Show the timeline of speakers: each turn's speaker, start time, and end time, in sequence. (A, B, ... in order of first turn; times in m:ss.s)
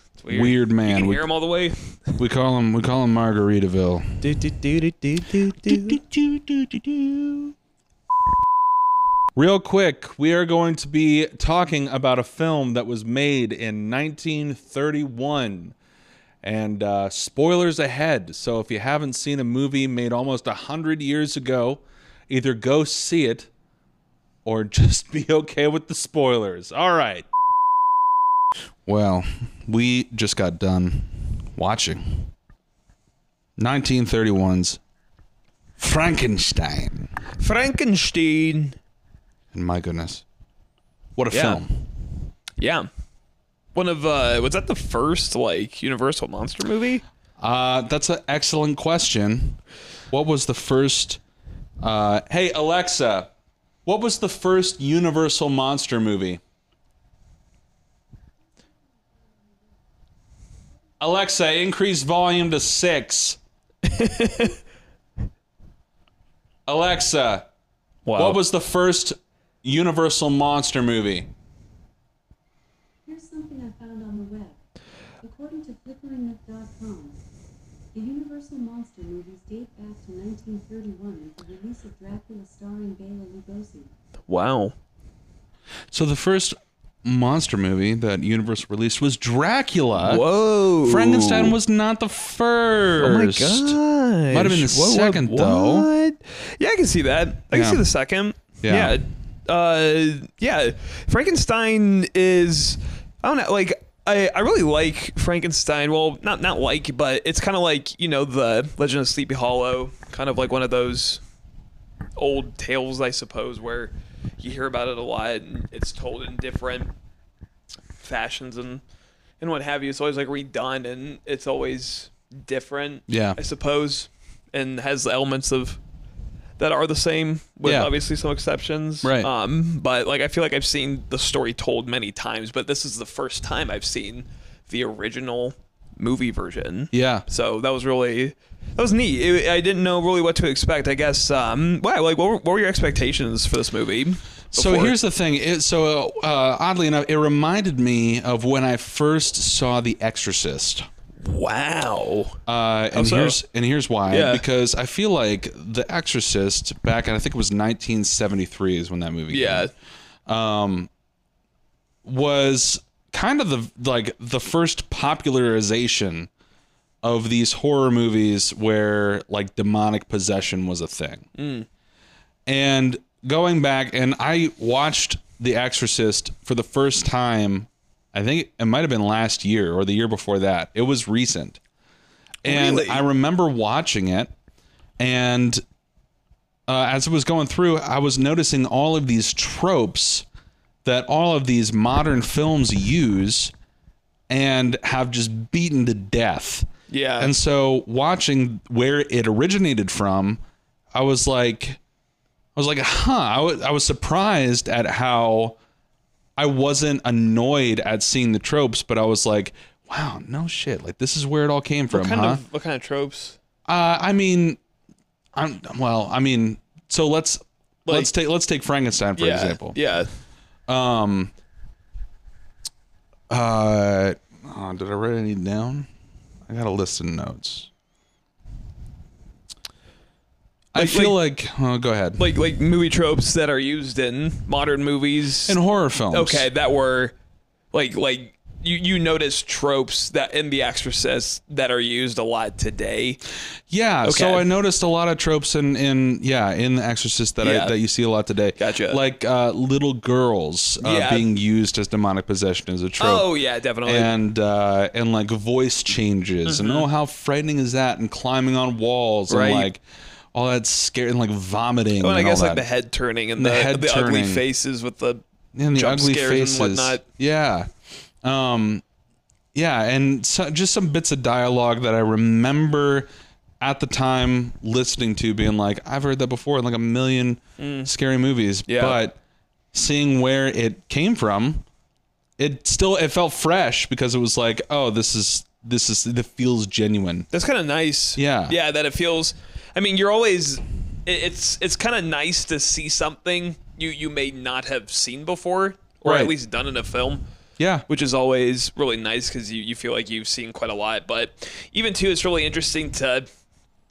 0:00.2-0:02.2 A
0:00.3-0:01.2 B
0:02.2-0:04.4 B
0:04.2-0:06.0 A
0:05.3-0:07.5 B
0:09.3-0:15.7 B
0:16.4-0:23.5 B
0:24.4-0:27.2 B
0:28.8-0:32.3 B
0:33.6-0:34.8 B
0:35.8-0:37.1 B
0:37.4-0:38.8 A
0:39.5-0:40.2 B
0:41.2-0:41.9 B
0:41.3-0:41.6 A
0:42.6-0:42.9 A
0:43.7-0:47.0 A
0:47.4-0:49.6 B
0:50.1-0:51.2 B
0:51.8-0:53.3 B
0:53.8-0:56.4 B
1:01.0-1:03.4 B
1:03.8-1:04.6 A
1:06.7-1:07.5 B
1:08.0-1:08.4 A
1:08.2-1:11.3 B
1:13.0-1:14.6 C
1:15.2-1:17.2 C
1:17.9-1:23.9 C
1:24.3-1:24.7 A
1:25.9-1:30.2 B
1:30.0-1:31.6 A
1:30.8-1:33.8 B
1:33.0-1:51.2 A
1:34.3-1:35.9 B
1:37.5-1:37.8 B
1:38.6-1:39.0 B
1:52.2-1:56.9 A
1:58.0-1:58.8 A
1:59.4-2:05.8 A
2:03.1-2:03.4 B
2:06.6-2:25.0 A
2:07.6-2:07.9 B
2:09.0-2:09.3 B
2:16.9-2:17.2 B
2:24.5-2:30.9 B
2:31.2-2:32.4 A
2:32.4-2:39.7 B
2:32.9-2:33.4 A
2:34.1-2:34.4 A
2:39.3-2:39.7 A
2:40.3-2:40.9 B
2:42.0-2:46.3 B
2:47.0-2:51.3 B
2:51.4-2:51.7 A
2:52.5-3:01.6 B
3:02.4-3:03.0 A
3:02.4-3:04.3 B
3:05.0-3:05.6 B
3:06.7-3:10.2 B
3:10.8-3:13.5 B
3:14.3-3:16.7 B
3:16.9-3:17.3 A
3:17.2-3:20.4 B
3:20.9-3:21.8 B
3:22.6-3:25.6 B
3:26.4-3:32.4 B
3:31.9-3:33.4 A
3:33.7-3:34.6 B
3:35.3-3:39.8 B
3:37.8-3:38.1 A
3:39.2-3:40.1 A
3:40.7-3:41.3 B
3:43.3-3:45.9 B
3:46.4-3:47.7 B
3:50.7-3:52.2 B
3:50.8-3:51.2 A
3:52.2-3:55.6 A
3:55.4-3:56.5 B
3:56.1-3:57.1 A
3:57.7-4:03.2 A
4:03.7-4:13.3 B
4:04.0-4:04.4 A
4:07.4-4:07.7 A
4:08.6-4:09.0 A
4:10.8-4:11.3 A
4:13.0-4:14.1 A
4:13.8-4:19.8 B
4:16.4-4:16.8 A
4:19.3-4:19.7 A
4:20.3-4:22.6 B
4:22.0-4:25.2 A
4:23.4-4:24.4 B
4:25.5-4:27.7 B
4:25.7-4:27.0 A
4:28.2-4:28.8 B
4:29.5-4:33.1 B
4:33.6-4:39.2 B
4:37.6-4:37.9 A
4:38.7-4:39.0 A
4:39.7-4:41.6 B
4:42.4-4:47.3 B
4:47.3-4:57.2 A
4:48.2-4:48.6 B
4:56.0-4:56.3 B
4:57.6-4:57.8 B
4:57.9-5:03.2 A